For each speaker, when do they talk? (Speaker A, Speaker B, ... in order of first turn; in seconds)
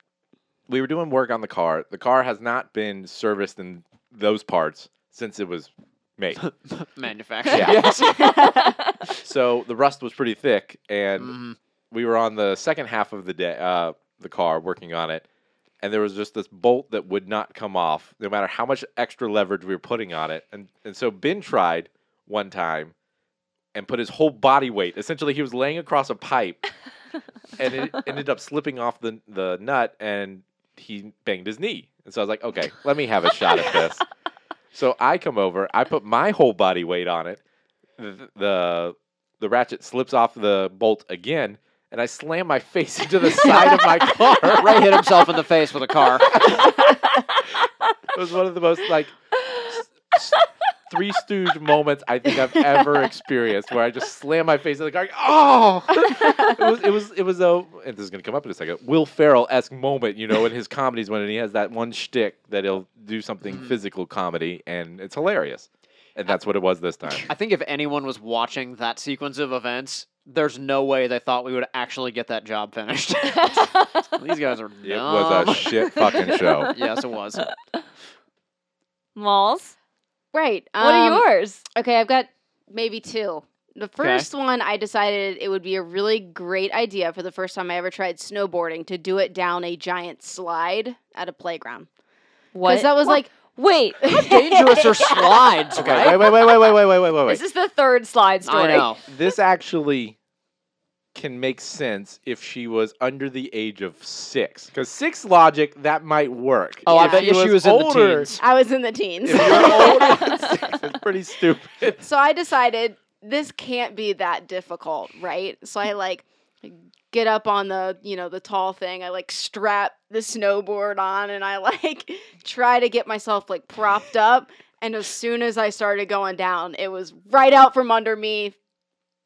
Speaker A: 0.7-6.4, 7.5-7.9, 9.2-11.4, 11.9-15.2, 15.8-22.9, 23.7-26.6, 27.6-34.0, 34.7-37.4, 38.0-45.1, 46.3-46.6, 48.1-49.1, 49.7-50.4, 50.9-67.3, 74.8-76.7, 95.8-97.4, 99.1-100.2, 101.1-108.3, 109.2-112.0
Speaker B: 6.4-8.6, 11.2-11.6, 44.5-46.5, 63.5-63.8, 67.2-76.0, 76.7-77.5, 84.0-84.3, 94.1-96.4, 98.5-99.0, 106.9-108.4
Speaker C: 8.1-9.0, 73.3-74.1, 76.0-76.7, 77.4-77.8, 79.2-79.8, 80.8-81.7, 92.5-94.0, 97.3-99.0
Speaker D: 8.1-8.7, 80.3-91.9, 92.7-93.3, 94.0-96.1, 106.9-107.3, 108.4-110.7, 112.0-128.6